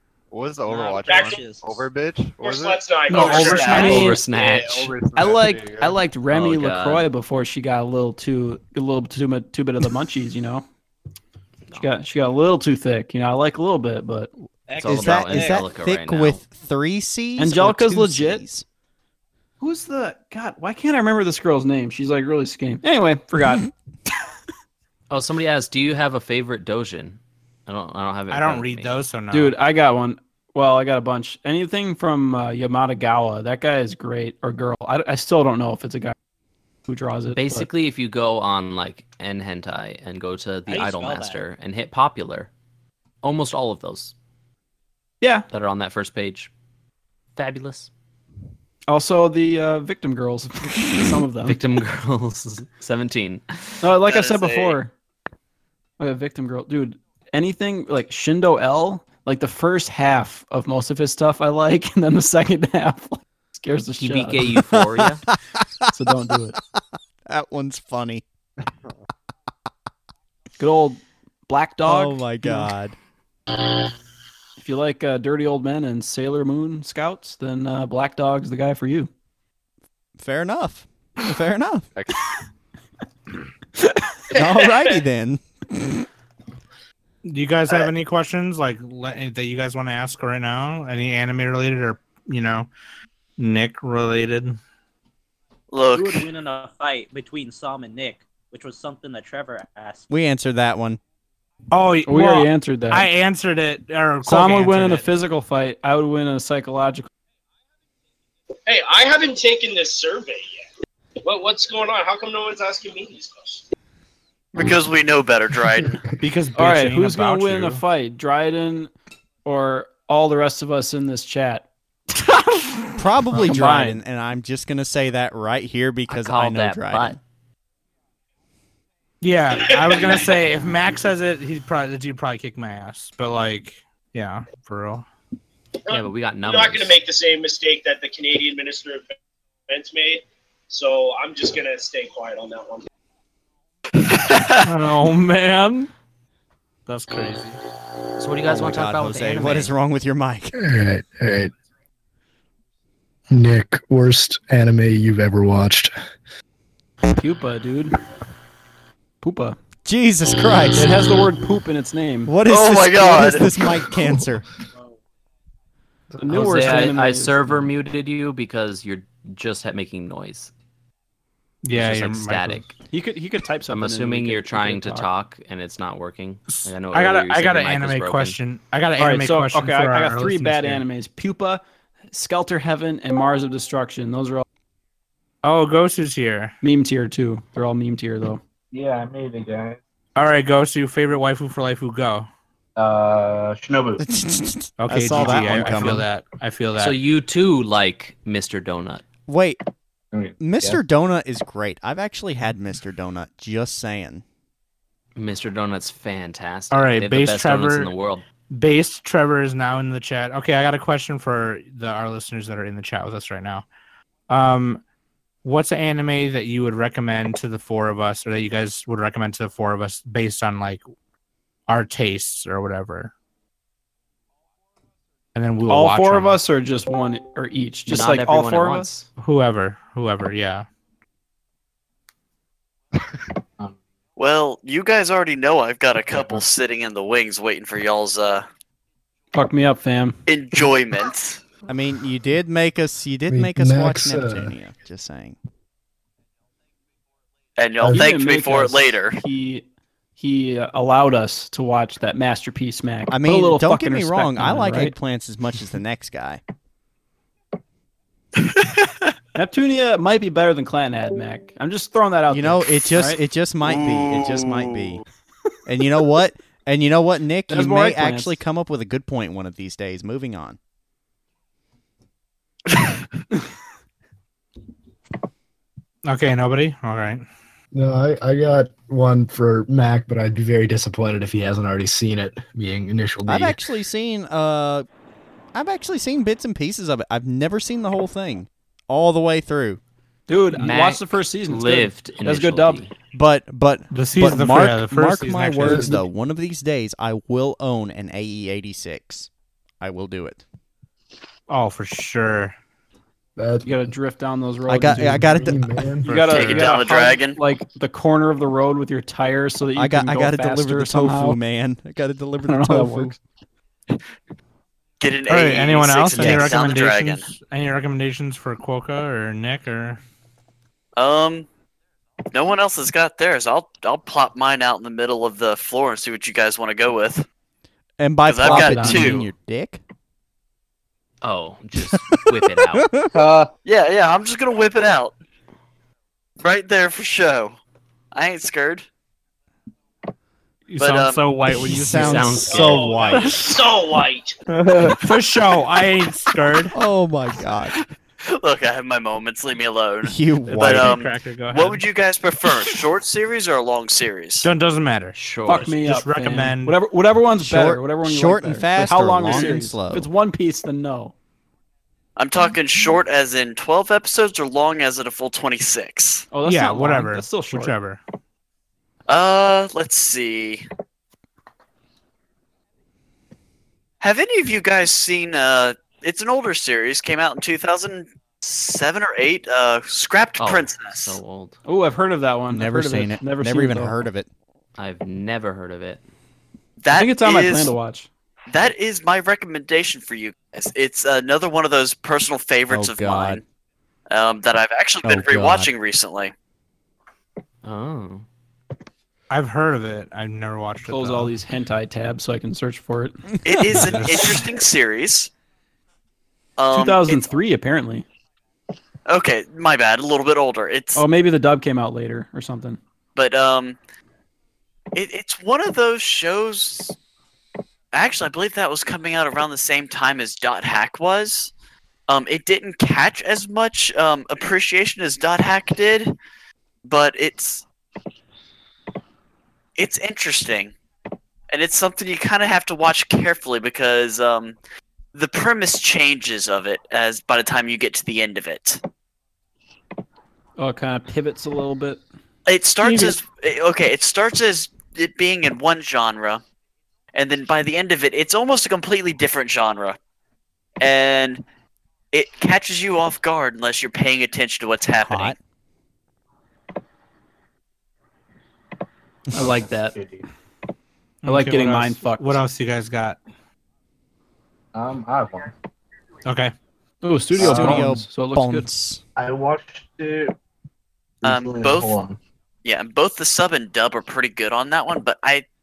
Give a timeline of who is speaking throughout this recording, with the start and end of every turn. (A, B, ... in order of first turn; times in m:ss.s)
0:00.3-0:06.0 A
0:00.7-0:01.8 B
0:01.0-0:01.4 C
0:02.4-0:04.1 C
0:03.1-0:04.2 D
0:03.5-0:05.0 E
0:05.1-0:10.6 D
0:06.3-0:07.1 E
0:11.8-0:14.3 D
0:14.7-0:15.7 B
0:14.8-0:16.4 E
0:14.8-0:18.6 F
0:17.4-0:18.4 D
0:19.6-0:23.7 D
0:25.1-0:29.0 E
0:28.3-0:29.6 G
0:29.3-0:36.1 D
0:36.9-0:37.7 D
0:37.3-0:42.5 E
0:40.7-0:41.4 B
0:43.2-0:44.1 E
0:45.5-0:46.5 E
0:47.4-0:47.9 E
0:48.9-0:51.6 D
0:51.4-0:53.8 E
0:53.8-0:54.9 D
0:54.0-0:54.8 H
0:56.0-1:04.5 D
1:04.0-1:05.2 E
1:04.7-1:05.6 F
1:05.9-1:06.6 D
1:07.3-1:08.2 F
1:10.6-1:12.7 D
1:11.8-1:13.0 F
1:14.6-1:19.1 D
1:20.2-1:21.8 F
1:24.3-1:25.4 F
1:27.2-1:32.7 G
1:33.4-1:34.6 G
1:35.7-1:36.3 H
1:36.0-1:40.1 B
1:40.1-1:41.0 F
1:41.7-1:45.0 G
1:42.0-1:43.1 D
1:44.2-1:47.1 D
1:48.7-1:50.6 C
1:51.2-1:53.6 C
1:54.5-1:56.0 H
1:56.2-1:57.8 G
1:56.5-1:58.9 D
1:59.4-2:04.0 D
2:03.0-2:07.2 F
2:06.1-2:07.2 E
2:09.2-2:15.0 G
2:09.8-2:10.2 C
2:15.8-2:19.1 C
2:15.9-2:17.0 E
2:19.7-2:22.9 C
2:24.1-2:24.6 H
2:24.6-2:25.9 G
2:26.9-2:27.6 G
2:28.2-2:29.7 E
2:28.4-2:30.5 F
2:30.5-2:31.5 I
2:33.3-2:35.9 I
2:37.0-2:38.0 D
2:39.2-2:39.6 D
2:39.8-2:41.0 F
2:40.7-2:42.3 D
2:42.3-2:44.5 F
2:42.4-2:43.6 H
2:46.2-2:47.7 D
2:46.3-2:50.5 E
2:51.6-2:52.6 G
2:51.7-2:52.7 E
2:52.9-2:55.1 D
2:53.7-2:58.4 E
2:56.5-3:00.8 G
2:59.0-3:04.4 D
3:05.4-3:06.5 G
3:06.6-3:08.4 D
3:08.7-3:09.8 J
3:10.2-3:12.3 G
3:12.8-3:14.1 J
3:14.0-3:16.1 F
3:14.8-3:17.0 G
3:16.8-3:19.0 E
3:19.3-3:19.6 F
3:20.1-3:20.8 J
3:20.4-3:24.2 F
3:25.2-3:28.2 E
3:26.7-3:27.9 G
3:28.5-3:33.6 G
3:34.3-3:34.8 G
3:35.4-3:40.8 G
3:41.7-3:43.1 G
3:45.3-3:46.4 G
3:45.7-3:48.9 D
3:47.9-3:49.1 E
3:49.2-3:50.6 G
3:54.2-3:58.4 H
3:59.3-4:00.2 D
4:00.3-4:01.4 H
4:01.7-4:05.4 F
4:03.3-4:04.6 I
4:07.6-4:09.2 H
4:07.8-4:08.1 I
4:07.9-4:09.6 D
4:10.2-4:14.9 D
4:13.1-4:16.4 F
4:19.3-4:23.2 D
4:22.3-4:25.0 F
4:23.6-4:24.8 H
4:25.6-4:30.6 F
4:27.5-4:28.4 D
4:36.0-4:37.2 G
4:37.7-4:43.6 I
4:43.2-4:44.8 F
4:45.5-4:49.8 F
4:50.3-4:52.8 D
4:50.5-4:52.9 E
4:53.1-4:59.3 F
4:53.9-4:55.9 G
4:55.6-4:56.0 I
4:59.8-5:00.4 F
5:01.5-5:02.5 G
5:03.4-5:03.9 I
5:03.6-5:11.4 D
5:04.7-5:05.6 F
5:04.8-5:06.1 I
5:06.0-5:06.8 G
5:06.3-5:07.4 H
5:09.7-5:13.2 F
5:12.4-5:13.2 D
5:15.0-5:17.3 H
5:15.3-5:20.0 G
5:16.1-5:16.6 F
5:21.0-5:21.5 H
5:22.3-5:27.2 H
5:28.0-5:29.8 F
5:28.2-5:29.3 H
5:28.4-5:29.2 D
5:31.2-5:32.9 E
5:32.7-5:33.0 F
5:33.6-5:35.1 H
5:36.4-5:37.6 H
5:38.1-5:38.8 H
5:40.7-5:43.4 G
5:40.8-5:41.2 H
5:41.4-5:43.4 F
5:42.0-5:43.0 E
5:42.5-5:44.3 C
5:44.9-5:46.7 G
5:46.7-5:47.8 F
5:48.2-5:54.5 H
5:50.0-5:51.0 F
5:50.5-5:51.8 G
5:54.4-5:56.8 G
5:55.2-5:55.7 E
5:55.4-6:01.1 D
5:57.4-6:00.1 F
6:02.2-6:06.3 H
6:06.3-6:07.7 D
6:06.4-6:08.0 G
6:09.1-6:10.6 H
6:14.0-6:21.2 H
6:20.4-6:21.6 E
6:21.6-6:24.0 D
6:22.5-6:24.3 F
6:24.8-6:26.0 E
6:26.8-6:27.7 H
6:26.9-6:28.1 D
6:28.5-6:33.4 H
6:32.7-6:33.4 F
6:34.1-6:36.3 H
6:35.0-6:35.7 F
6:37.6-6:38.2 E
6:39.3-6:41.3 G
6:40.8-6:43.8 D
6:43.4-6:45.3 H
6:43.8-6:44.4 G
6:46.6-6:47.4 H
6:46.7-6:48.0 D
6:49.1-6:51.0 H
6:50.9-6:52.8 D
6:53.1-6:53.8 H
6:54.9-6:57.0 H
6:57.9-7:01.5 H
7:02.1-7:06.1 H
7:06.8-7:07.6 H
7:09.8-7:10.7 H
7:11.5-7:14.6 H
7:15.1-7:18.8 H
7:20.6-7:22.0 D
7:22.5-7:26.4 H
7:27.1-7:30.0 H
7:30.8-7:31.4 H
7:32.1-7:35.4 H
7:35.0-7:35.4 F
7:39.3-7:40.2 J
7:39.3-7:39.9 D
7:41.2-7:43.2 G
7:41.2-7:42.4 D
7:44.7-7:45.5 J
7:46.2-7:46.5 G
7:47.0-7:48.7 D
7:47.4-7:49.0 F
7:47.4-7:47.8 J
7:49.2-7:50.3 J
7:51.2-7:52.2 J
7:51.2-7:52.0 H
7:52.6-7:55.4 H